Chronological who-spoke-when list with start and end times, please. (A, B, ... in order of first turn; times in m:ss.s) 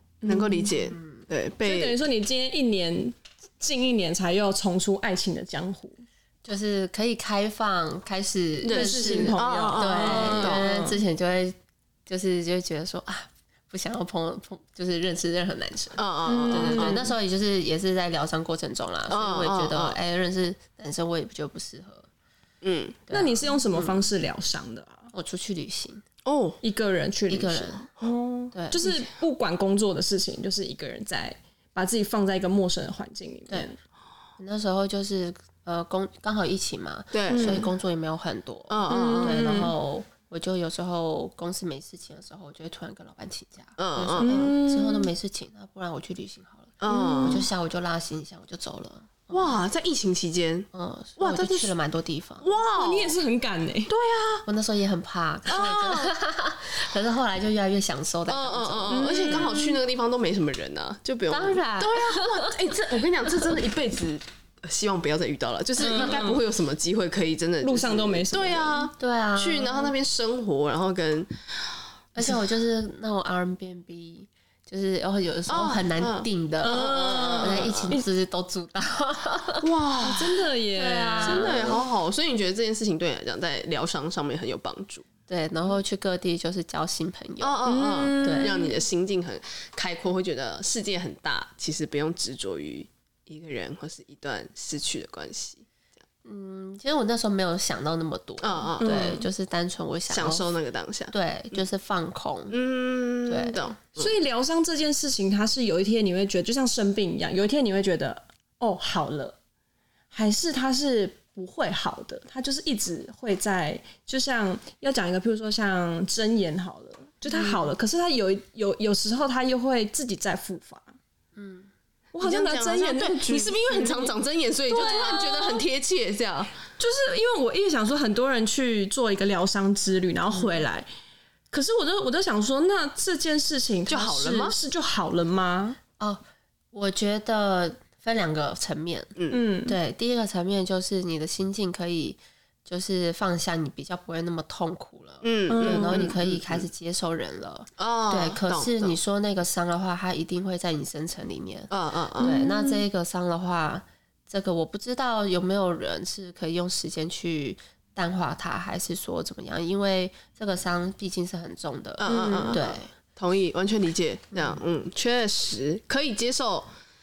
0:00.2-0:00.7 A
0:00.2-0:02.0 B
0:00.8-0:01.2 C
0:01.6-0:06.0 A
0:06.4-0:22.1 C
0:08.6-0:10.7 B
0:08.7-0:11.0 A
0:16.0-0:17.1 B
0:16.2-0:17.1 A
0:19.1-0:20.0 B
0:22.6-0:23.0 B
0:23.1-0:24.1 C
0:23.1-0:25.1 A
0:25.1-0:26.0 C
0:26.2-0:26.6 B
0:26.6-0:33.8 A
0:27.3-0:27.9 C
0:28.5-0:29.1 C
0:34.4-0:49.6 C
0:37.1-0:37.7 B
0:37.3-0:37.6 A
0:38.7-0:39.7 B
0:38.9-0:39.7 A
0:43.8-0:44.5 B
0:44.2-0:45.1 A
0:46.8-0:47.5 B
0:46.9-0:47.5 A
0:49.3-0:51.7 B
0:50.7-0:52.5 C
0:52.4-0:53.2 B
0:52.8-0:53.9 A
0:53.9-0:54.4 B
0:54.4-0:59.6 C
0:55.5-0:56.1 B
0:58.3-1:11.3 B
0:58.9-0:59.7 A
1:01.3-1:02.5 C
1:05.8-1:06.4 A
1:05.9-1:06.2 C
1:07.6-1:08.8 A
1:09.0-1:09.9 C
1:12.1-1:19.6 C
1:15.5-1:18.0 B
1:16.6-1:18.0 A
1:19.6-1:20.4 B
1:20.0-1:21.8 A
1:20.7-1:21.8 C
1:21.2-1:25.0 B
1:25.3-1:27.6 C
1:27.4-1:35.6 B
1:27.6-1:28.8 A
1:28.2-1:28.6 C
1:36.2-1:40.5 C
1:38.4-1:39.2 B
1:38.8-1:39.2 A
1:40.1-1:41.6 B
1:41.1-1:42.5 C
1:42.5-1:44.1 B
1:43.3-1:43.7 C
1:44.0-1:49.4 A
1:50.1-2:00.9 A
2:01.3-2:01.7 C
2:02.1-2:04.1 A
2:02.2-2:06.5 B
2:04.7-2:05.6 A
2:06.8-2:10.9 A
2:10.3-2:10.6 C
2:11.5-2:15.8 A
2:13.9-2:14.6 B
2:16.7-2:19.1 C
2:19.2-2:19.4 B
2:19.3-2:19.8 A
2:19.6-2:42.9 C
2:25.2-2:26.6 B
2:25.5-2:26.1 A
2:27.8-2:29.0 B
2:31.7-2:32.4 B
2:32.2-2:32.8 A
2:42.0-2:46.7 B
2:42.0-2:42.6 A
2:44.3-2:44.6 C